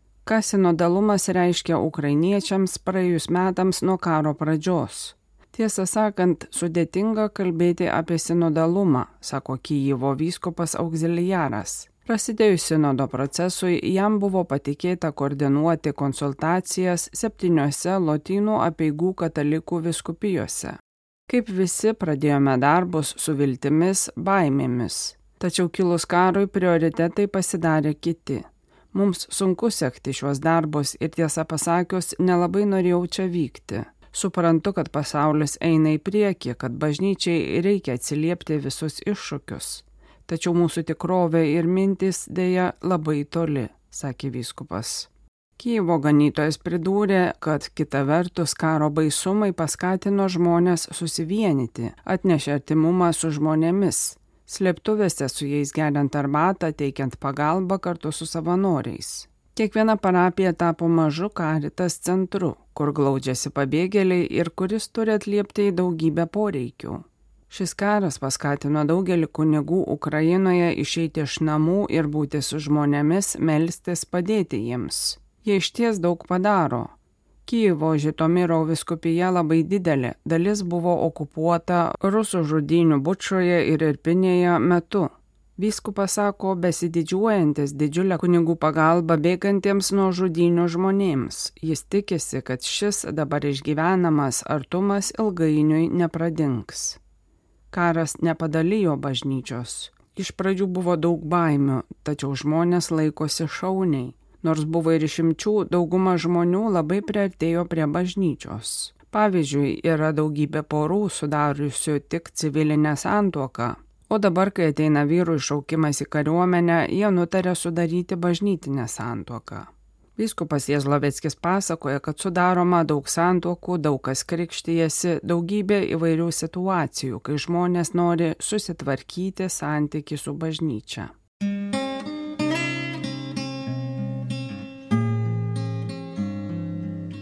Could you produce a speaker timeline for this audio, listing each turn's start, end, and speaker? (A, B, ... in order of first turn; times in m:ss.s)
0:00.2-1:16.9 A
1:17.5-1:37.0 A
1:37.7-2:11.1 A